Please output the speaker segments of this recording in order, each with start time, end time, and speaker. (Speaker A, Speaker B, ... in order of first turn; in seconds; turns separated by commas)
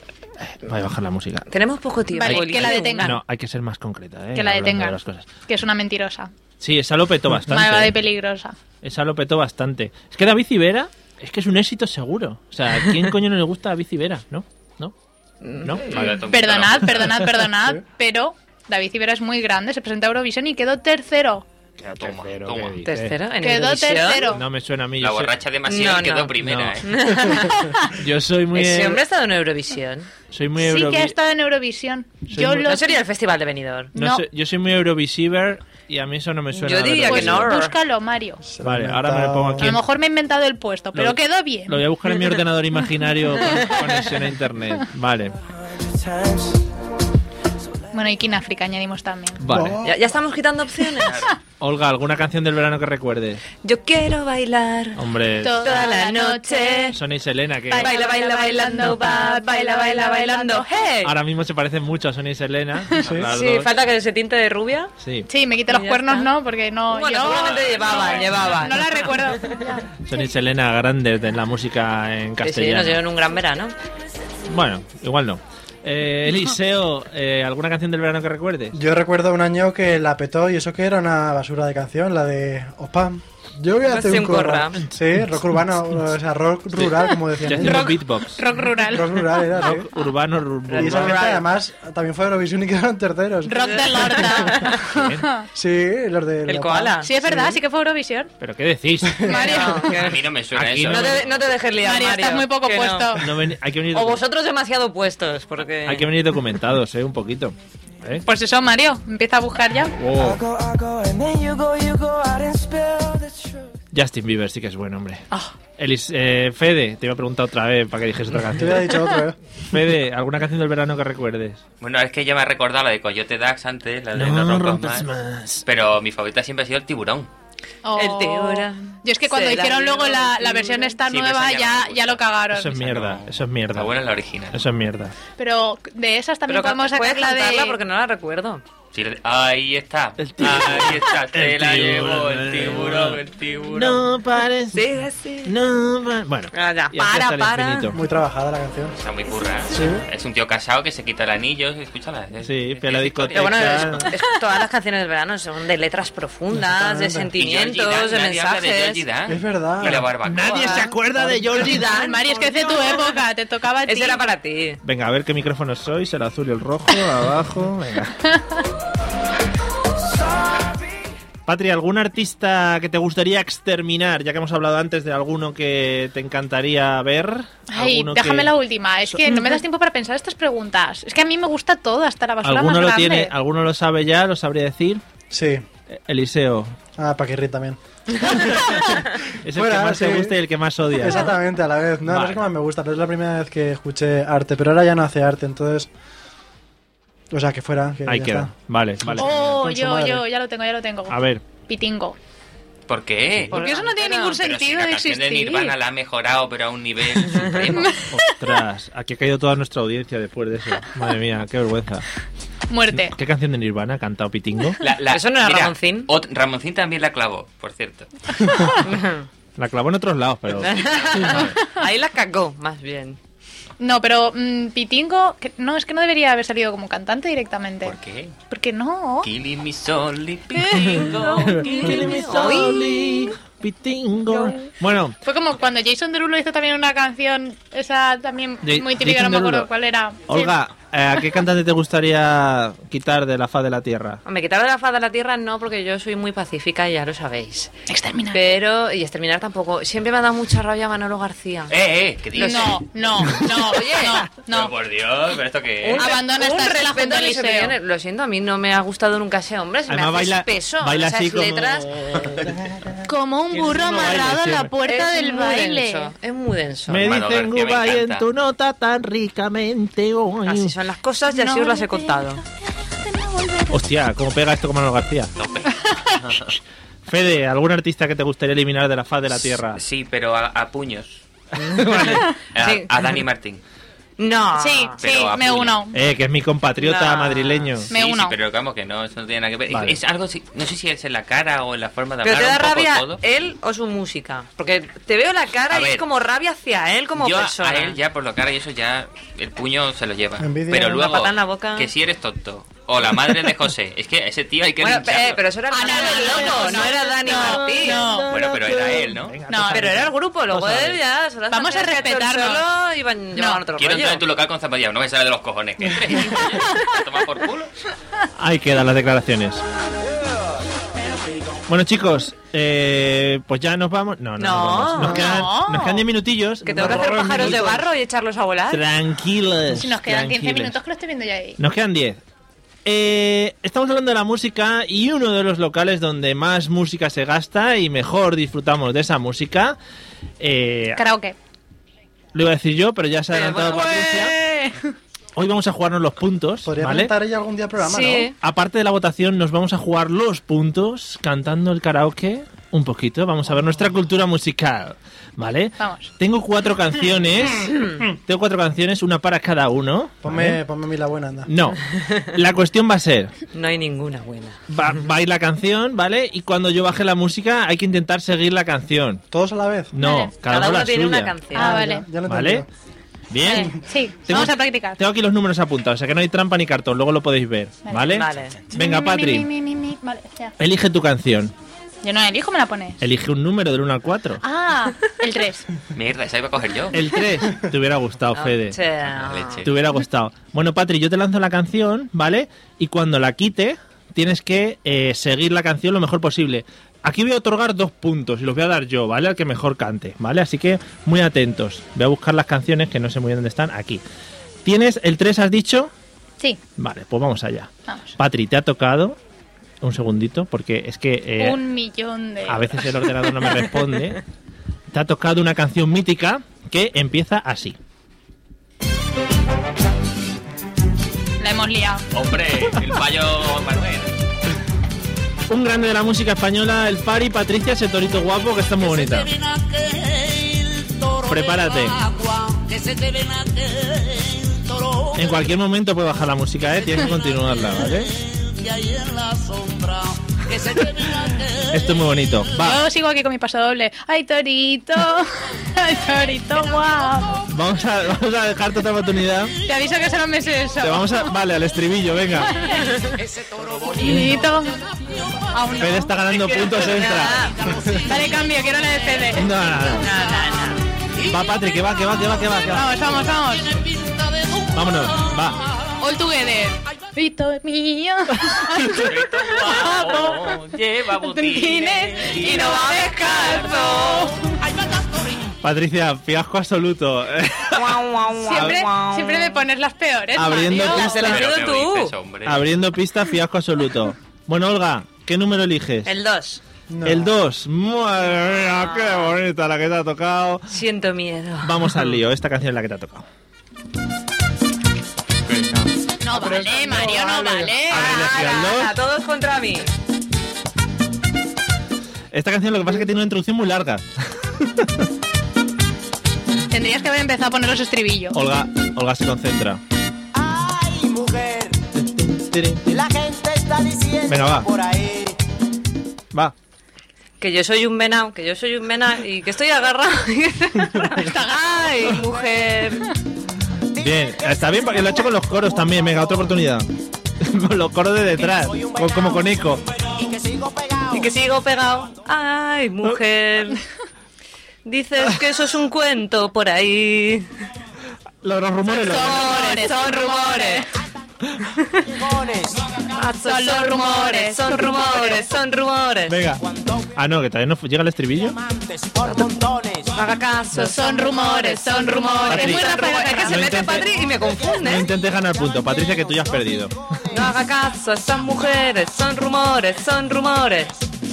Speaker A: 0.4-1.5, Speaker B: 1.5-3.2, Speaker C: 2.1-3.1, Speaker A: 2.2-5.3, Speaker C: 4.3-6.3, Speaker A: 6.6-8.0, Speaker C: 7.5-8.5, Speaker A: 8.8-14.9, Speaker B: 15.4-16.1, Speaker A: 15.6-16.0, Speaker D: 15.8-17.3, Speaker C: 16.1-21.4, Speaker A: 21.8-23.2, Speaker D: 22.0-22.8, Speaker B: 22.8-24.4, Speaker C: 23.4-24.4, Speaker A: 24.3-25.3, Speaker D: 25.0-27.0, Speaker B: 25.7-27.6, Speaker A: 26.4-26.8, Speaker C: 27.5-27.9, Speaker A: 27.9-29.0, Speaker B: 28.5-30.1, Speaker A: 30.3-31.2, Speaker C: 30.6-33.0, Speaker A: 32.3-32.7, Speaker B: 32.5-33.9, Speaker C: 33.9-34.2, Speaker A: 34.0-37.6, Speaker B: 36.5-37.8, Speaker C: 37.0-38.4, Speaker E: 38.4-39.8, Speaker A: 38.6-39.8, Speaker C: 39.6-41.8, Speaker A: 40.9-45.4, Speaker F: 45.8-46.5, Speaker C: 47.9-49.4, Speaker A: 49.4-49.8, Speaker E: 49.5-50.1, Speaker B: 49.8-51.3, Speaker D: 51.0-51.3, Speaker A: 51.6-53.4, Speaker B: 53.6-55.0, Speaker A: 55.0-55.8, Speaker C: 55.4-57.0, Speaker B: 55.6-57.0, Speaker A: 56.9-57.9, Speaker C: 57.7-60.9, Speaker B: 57.8-61.1, Speaker A: 61.0-63.8, Speaker E: 63.0-63.3, Speaker B: 63.3-64.9, Speaker A: 65.0-65.3, Speaker C: 65.3-69.9, Speaker B: 65.7-66.3, Speaker B: 66.9-68.8, Speaker D: 67.3-68.5, Speaker A: 70.0-73.0, Speaker B: 72.4-73.8, Speaker A: 74.5-78.8, Speaker E: 78.7-88.0, Speaker B: 83.9-84.9, Speaker A: 85.2-86.1, Speaker A: 86.7-88.4, Speaker C: 87.5-89.5, Speaker E: 88.8-89.9, Speaker A: 89.6-91.3, Speaker B: 90.7-91.5, Speaker E: 90.7-94.2, Speaker C: 93.5-95.5, Speaker B: 93.5-94.8, Speaker A: 94.9-95.3, Speaker E: 95.5-97.6, Speaker B: 96.5-97.1, Speaker C: 97.0-98.3, Speaker A: 98.4-99.4, Speaker C: 99.2-100.0, Speaker B: 99.3-100.2, Speaker D: 99.9-101.5, Speaker A: 100.5-101.2, Speaker B: 100.9-103.2, Speaker C: 101.8-103.3, Speaker A: 103.2-104.2, Speaker B: 103.9-106.1, Speaker A: 105.8-108.2, Speaker C: 108.2-110.0, Speaker A: 110.0-110.4, Speaker F: 110.1-113.7, Speaker A: 113.9-115.3, Speaker A: 115.8-119.1, Speaker E: 118.6-119.4, Speaker A: 119.7-121.6, Speaker D: 121.8-125.1, Speaker A: 124.2-125.6, Speaker D: 125.7-127.3, Speaker C: 127.8-132.8, Speaker B: 128.0-130.9, Speaker D: 131.1-134.6, Speaker A: 132.5-133.9, Speaker A: 134.5-135.2, Speaker C: 135.4-137.8, Speaker B: 136.5-138.6, Speaker D: 138.9-144.1, Speaker A: 140.2-148.0, Speaker B: 144.7-145.6, Speaker B: 146.5-148.0, Speaker E: 147.9-149.0, Speaker D: 149.0-154.0, Speaker E: 149.7-150.1, Speaker A: 152.4-154.1, Speaker B: 153.3-159.0, Speaker E: 156.6-157.3, Speaker D: 157.4-160.9, Speaker E: 159.3-160.1, Speaker A: 160.2-163.1, Speaker B: 160.4-162.7, Speaker C: 161.8-164.2, Speaker B: 163.9-164.8, Speaker A: 164.8-168.2, Speaker C: 168.3-168.6, Speaker A: 171.5-178.5, Speaker C: 177.7-183.3, Speaker A: 179.1-179.5, Speaker A: 182.4-185.0, Speaker E: 185.3-185.7, Speaker A: 185.9-186.8, Speaker E: 187.0-190.3, Speaker A: 188.3-188.8, Speaker A: 189.4-191.4, Speaker E: 190.9-195.9, Speaker A: 192.0-192.5, Speaker E: 197.3-198.5, Speaker A: 198.1-199.5, Speaker E: 199.1-200.2, Speaker C: 199.2-202.2, Speaker A: 201.1-201.4, Speaker D: 202.9-203.6, Speaker B: 203.5-204.4, Speaker C: 203.5-205.7, Speaker D: 204.2-207.9, Speaker C: 207.8-208.2, Speaker A: 208.1-212.1, Speaker C: 212.7-213.1, Speaker A: 212.9-214.8, Speaker D: 214.8-218.7, Speaker B: 215.1-216.1, Speaker C: 218.5-218.8, Speaker B: 218.8-219.3, Speaker A: 219.6-221.4, Speaker B: 220.6-223.2, Speaker D: 220.7-221.6, Speaker C: 223.8-228.0, Speaker D: 227.8-228.3, Speaker C: 228.5-229.3, Speaker D: 229.2-232.1, Speaker B: 230.6-232.9, Speaker A: 231.6-235.2, Speaker C: 235.2-240.5, Speaker A: 238.6-239.7, Speaker A: 240.3-244.2, Speaker B: 244.2-247.7, Speaker C: 247.9-248.4, Speaker B: 248.3-251.7, Speaker D: 251.7-252.8, Speaker B: 252.3-252.8, Speaker C: 252.4-254.7, Speaker B: 253.5-254.2, Speaker D: 254.4-256.1, Speaker B: 255.9-262.3, Speaker C: 256.0-257.8, Speaker A: 259.9-262.9, Speaker C: 263.1-266.1, Speaker A: 263.5-264.8, Speaker B: 264.8-267.1, Speaker A: 266.9-270.8, Speaker D: 267.0-268.2, Speaker B: 270.4-272.4, Speaker C: 271.3-272.2, Speaker C: 273.1-273.7, Speaker A: 273.7-275.3, Speaker D: 275.4-276.5, Speaker C: 275.9-276.1, Speaker A: 277.1-279.8, Speaker D: 279.3-281.2, Speaker B: 281.6-282.9, Speaker A: 281.8-282.2, Speaker D: 282.5-283.6, Speaker B: 284.2-285.0, Speaker C: 284.6-286.0, Speaker D: 285.0-285.8, Speaker A: 285.9-287.9, Speaker B: 286.8-287.8, Speaker C: 287.9-288.4, Speaker D: 287.9-293.2, Speaker A: 289.7-290.0, Speaker B: 292.2-298.0, Speaker D: 295.7-296.0, Speaker D: 297.2-305.5, Speaker E: 300.4-301.1, Speaker B: 300.9-301.9, Speaker B: 304.7-308.0, Speaker C: 305.7-308.3, Speaker A: 306.3-311.0, Speaker D: 308.3-309.4, Speaker C: 309.5-310.0, Speaker B: 309.7-314.2, Speaker C: 311.5-312.6, Speaker C: 313.4-313.6, Speaker D: 313.8-317.7, Speaker A: 318.4-319.6, Speaker A: 321.7-327.9, Speaker B: 324.4-325.4, Speaker C: 325.0-326.0, Speaker B: 326.6-328.8, Speaker E: 326.8-327.1, Speaker A: 328.7-330.8, Speaker C: 329.7-331.6, Speaker A: 331.6-332.2, Speaker A: 332.9-339.8, Speaker A: 340.4-341.0, Speaker C: 341.0-341.4, Speaker A: 342.3-344.4, Speaker B: 343.3-344.2, Speaker C: 343.7-344.8, Speaker A: 345.4-347.1, Speaker E: 346.6-348.3, Speaker B: 347.8-348.3, Speaker A: 348.4-360.6, Speaker C: 355.8-356.1, Speaker E: 360.2-361.5, Speaker A: 361.5-363.3, Speaker B: 361.9-362.3, Speaker B: 363.5-364.6, Speaker A: 364.7-369.2, Speaker E: 369.3-369.9, Speaker A: 369.9-371.5, Speaker C: 370.0-370.3, Speaker B: 370.4-371.8, Speaker C: 371.6-372.1, Speaker E: 371.6-372.7, Speaker A: 372.2-372.6, Speaker A: 373.3-379.5, Speaker C: 373.4-375.0, Speaker C: 377.9-378.2, Speaker B: 378.0-378.6, Speaker C: 378.7-380.5, Speaker A: 380.6-381.5, Speaker C: 382.0-383.0, Speaker A: 383.0-384.4, Speaker C: 384.4-385.7, Speaker D: 385.9-387.0, Speaker A: 386.9-388.8, Speaker B: 388.3-389.7, Speaker D: 389.1-389.7, Speaker A: 389.6-404.0, Speaker A: 404.6-405.9, Speaker A: 406.8-409.2, Speaker C: 407.9-408.1, Speaker A: 409.8-411.6, Speaker C: 411.4-412.9, Speaker A: 412.5-414.2, Speaker A: 414.9-417.8, Speaker C: 421.4-422.0, Speaker D: 422.1-424.1, Speaker A: 425.5-429.4, Speaker A: 431.1-432.1, Speaker A: 435.1-438.1, Speaker A: 440.5-442.8, Speaker C: 442.6-447.4, Speaker A: 447.5-449.6, Speaker C: 449.6-451.3, Speaker A: 450.8-452.6, Speaker C: 452.4-453.3, Speaker C: 453.9-454.8, Speaker A: 454.0-454.4, Speaker C: 455.4-456.2, Speaker A: 455.8-457.5, Speaker B: 456.4-457.7, Speaker C: 457.9-460.5, Speaker A: 459.3-460.1, Speaker B: 459.9-460.8, Speaker A: 461.2-463.1, Speaker C: 462.7-463.9, Speaker A: 464.6-465.7, Speaker C: 466.0-470.6, Speaker A: 468.4-469.1, Speaker D: 468.9-472.7, Speaker C: 471.2-474.6, Speaker B: 472.3-474.4, Speaker A: 475.5-478.8, Speaker B: 477.7-479.6, Speaker C: 478.4-481.3, Speaker A: 480.3-481.5, Speaker B: 480.7-482.1, Speaker D: 481.2-482.7, Speaker A: 482.5-486.1, Speaker B: 486.1-486.6, Speaker E: 486.9-487.3, Speaker A: 487.1-490.7, Speaker B: 488.8-489.3, Speaker B: 490.7-492.1, Speaker A: 491.6-493.3, Speaker D: 495.5-495.9, Speaker C: 496.2-498.4, Speaker E: 496.3-497.8, Speaker A: 497.9-499.0, Speaker B: 498.0-499.9, Speaker A: 502.3-505.1, Speaker C: 506.7-508.4, Speaker A: 508.3-509.8, Speaker F: 510.8-511.7, Speaker A: 511.9-513.1, Speaker F: 513.1-514.1, Speaker A: 514.2-514.8, Speaker B: 517.4-523.1, Speaker C: 521.2-521.6, Speaker A: 523.9-529.9, Speaker B: 531.0-533.8, Speaker B: 534.9-537.5, Speaker A: 538.4-539.5, Speaker C: 539.0-540.9, Speaker B: 539.1-540.9, Speaker B: 542.0-542.3, Speaker B: 543.1-546.4, Speaker C: 543.4-545.5, Speaker A: 546.3-548.6, Speaker B: 549.2-555.0, Speaker C: 550.7-553.6, Speaker A: 552.5-557.4, Speaker B: 557.3-560.9